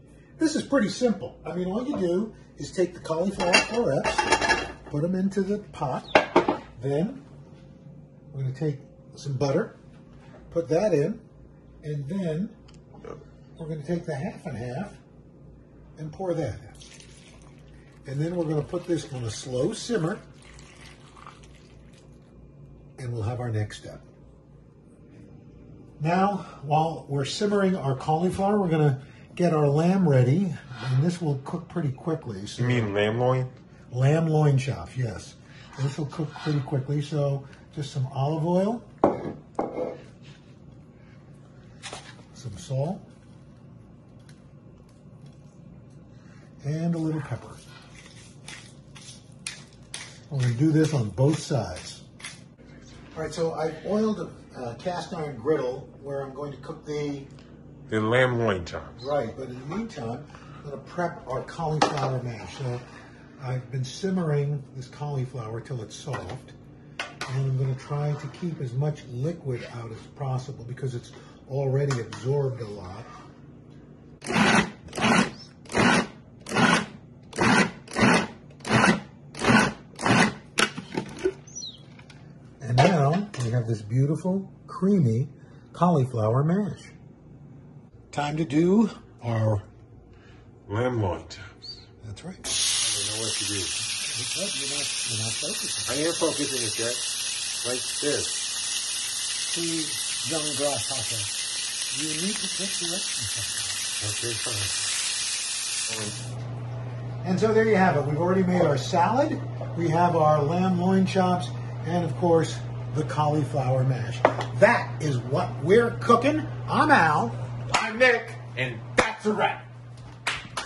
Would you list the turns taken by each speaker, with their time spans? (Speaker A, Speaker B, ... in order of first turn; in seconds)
Speaker A: 0.4-7.2, 8.3-9.7, 10.5-11.2, 11.8-12.5, 13.6-15.0, 15.9-16.9, 18.0-20.2, 23.0-24.0, 26.0-32.9, 33.9-38.9, 42.3-43.0, 46.6-47.7, 50.3-52.0, 53.1-57.3, 59.0-62.8, 63.4-66.5, 67.2-73.1, 82.6-86.9, 88.1-89.7, 92.0-92.5, 94.0-96.0, 99.5-101.3, 101.9-103.9, 107.2-117.4
Speaker B: 32.6-33.5, 57.9-59.1, 90.7-91.8, 92.8-93.7, 95.8-97.0, 97.6-98.4, 104.0-104.8, 117.7-119.7